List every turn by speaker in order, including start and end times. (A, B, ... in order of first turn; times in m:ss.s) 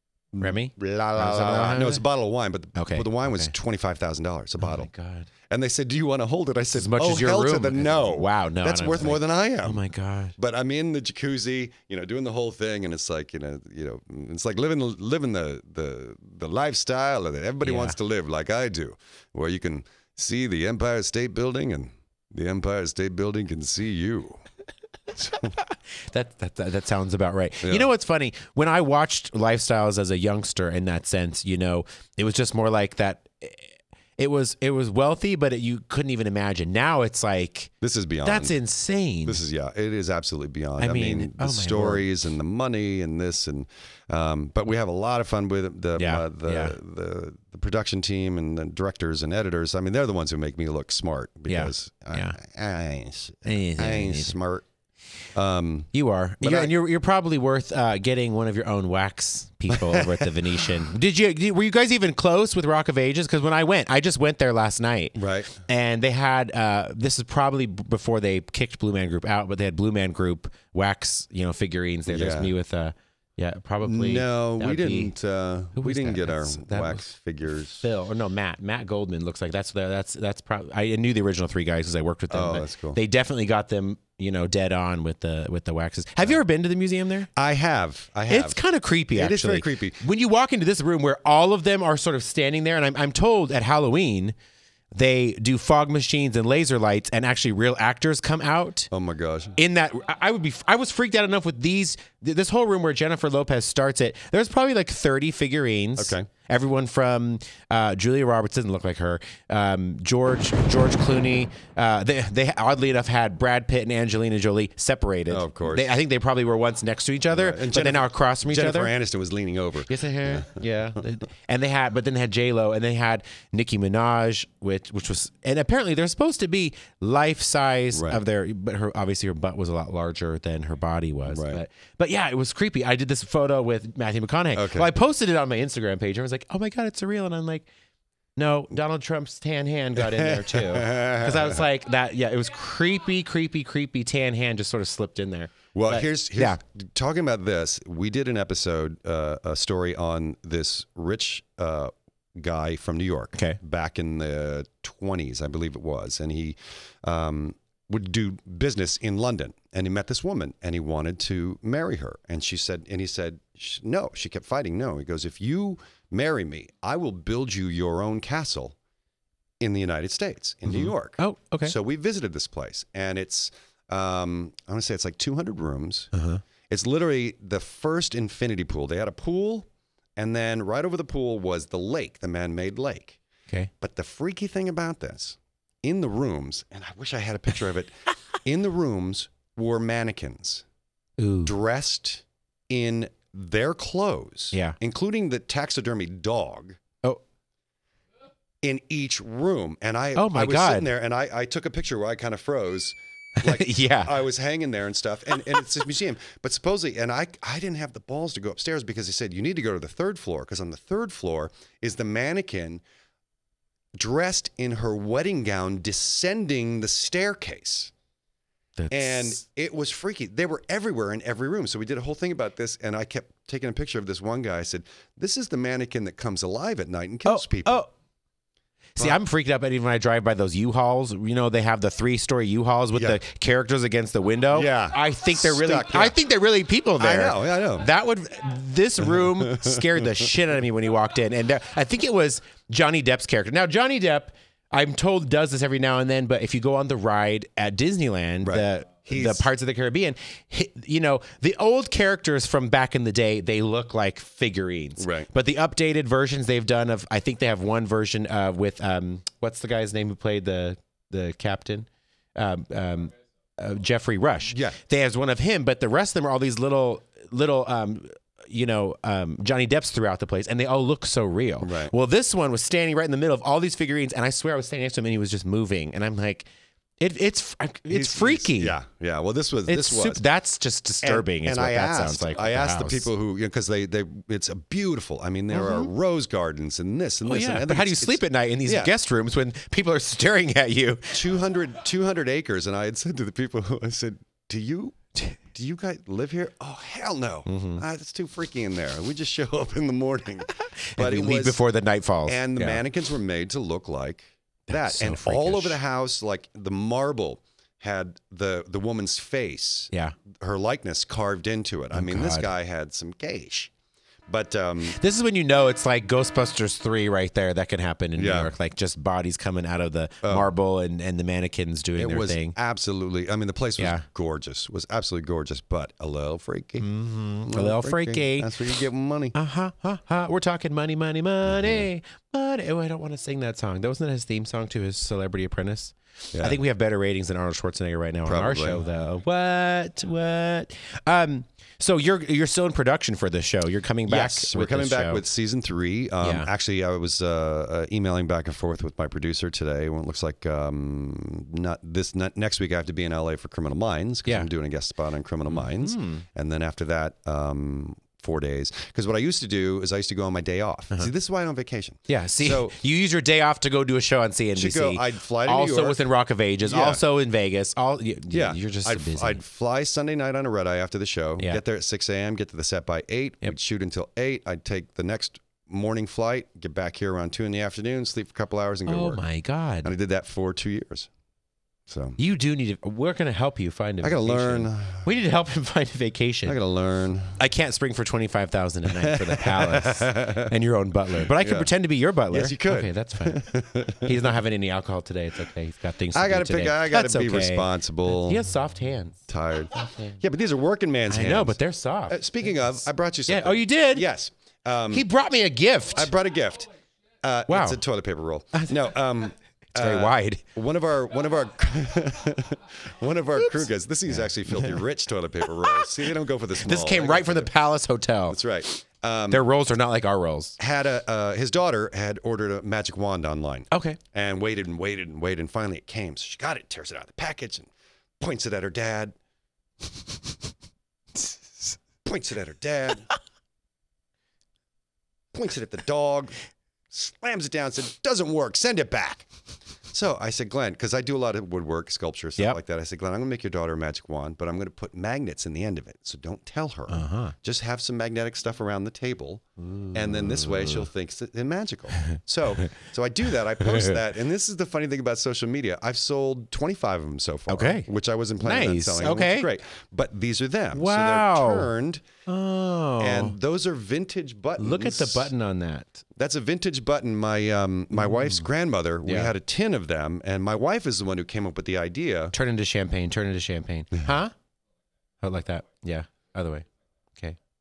0:00.3-0:04.9 A
0:00.4-0:02.0 B
0:02.8-0:03.5 B
0:04.6-0:05.3 B
0:05.5-0:09.8 A
0:06.7-0:10.4 B
0:10.4-0:24.4 A
0:17.6-0:18.0 B
0:25.2-0:25.5 A
0:25.3-0:37.7 B
0:27.6-0:27.9 A
0:37.8-0:38.6 A
0:38.2-0:39.4 B
0:39.2-0:54.7 A
0:40.8-0:42.1 B
0:46.0-0:46.8 B
0:51.5-0:52.4 B
0:53.5-0:54.4 B
0:55.4-0:55.9 A
0:55.9-1:15.1 B
0:56.4-0:56.7 A
0:59.7-1:00.3 A
1:05.2-1:05.6 A
1:12.1-1:12.5 A
1:13.8-1:17.8 A
1:15.8-1:17.1 B
1:17.8-1:27.3 B
1:22.3-1:23.0 A
1:27.4-1:28.6 A
1:28.3-1:34.4 B
1:29.1-1:30.0 A
1:34.9-1:38.9 B
1:38.9-1:39.6 A
1:39.6-1:58.9 B
1:46.0-1:46.3 A
1:55.3-1:55.9 A
1:57.3-2:00.6 A
1:59.9-2:17.7 B
2:07.9-2:08.2 A
2:11.3-2:11.6 A
2:14.6-2:14.9 A
2:18.4-2:26.6 B
2:20.0-2:21.6 A
2:25.7-2:48.8 A
2:49.6-2:56.1 A
2:50.7-2:51.8 B
2:56.1-2:56.4 B
2:56.7-3:03.2 A
3:03.8-3:07.9 A
3:08.4-3:10.6 A
3:11.2-3:11.5 B
3:11.4-3:16.8 A
3:18.6-3:32.8 A
3:20.2-3:20.9 B
3:23.4-3:24.2 B
3:34.0-3:37.9 A
3:38.8-3:39.4 B
3:38.9-3:47.8 A
3:47.3-3:47.9 B
3:49.0-4:36.5 B
3:54.5-3:56.2 A
3:57.0-3:57.9 A
3:59.0-4:00.3 A
4:08.4-4:09.4 A
4:15.0-4:15.3 A
4:24.5-4:24.8 A
4:31.6-4:31.9 A
4:37.0-4:38.8 B
4:37.9-4:40.2 A
4:39.7-4:43.1 B
4:41.0-4:48.9 A
4:45.5-4:45.9 B
4:47.2-4:51.2 B
4:51.1-5:01.6 A
4:57.5-4:57.8 B
5:00.6-5:02.8 B
5:02.3-5:13.7 A
5:04.7-5:05.8 B
5:11.9-5:12.5 B
5:14.3-5:15.0 A
5:14.8-5:22.6 B
5:18.2-5:18.5 A
5:20.2-5:20.5 A
5:22.0-5:26.9 A
5:23.8-5:24.0 B
5:26.8-5:28.5 B
5:27.4-5:29.4 A
5:29.3-5:45.2 B
5:31.4-5:31.9 A
5:36.3-5:36.6 A
5:38.3-5:38.8 A
5:44.1-6:02.8 A
5:46.2-5:46.5 B
5:55.5-5:56.2 B
6:02.1-6:09.4 B
6:04.6-6:06.0 A
6:06.6-6:07.0 A
6:08.3-6:19.2 A
6:18.9-6:19.9 B
6:19.8-6:21.1 A
6:21.9-6:22.2 A
6:22.2-6:26.6 B
6:24.0-6:25.1 A
6:26.5-6:27.4 A
6:27.4-6:33.5 B
6:28.9-6:30.5 A
6:31.2-6:31.7 A
6:32.3-6:34.2 A
6:34.0-6:40.2 B
6:36.1-6:38.5 A
6:39.3-6:41.6 A
6:41.1-6:42.2 B
6:42.1-6:45.1 A
6:43.3-6:44.1 B
6:44.9-6:46.1 B
6:45.9-6:46.7 A
6:47.2-6:57.5 A
6:47.5-6:47.8 B
6:49.8-6:50.4 B
6:56.6-6:58.4 B
6:58.3-6:59.5 A
6:59.3-7:00.6 B
7:00.6-7:07.7 A
7:03.7-7:04.0 B
7:08.2-7:09.2 A
7:12.0-7:13.1 A
7:15.3-7:16.3 A
7:16.9-7:19.3 A
7:19.9-7:42.0 A
7:26.9-7:27.4 B
7:29.6-7:30.8 B
7:32.0-7:32.7 B
7:33.6-7:34.0 B
7:37.5-7:37.9 B
7:38.4-7:39.5 B
7:40.7-7:41.7 B
7:42.3-7:43.4 B
7:43.0-7:45.3 A
7:44.6-7:46.0 B
7:46.2-7:52.3 A
7:48.0-7:48.4 B
7:49.0-7:49.3 B
7:52.3-7:54.3 B
7:55.2-7:56.7 B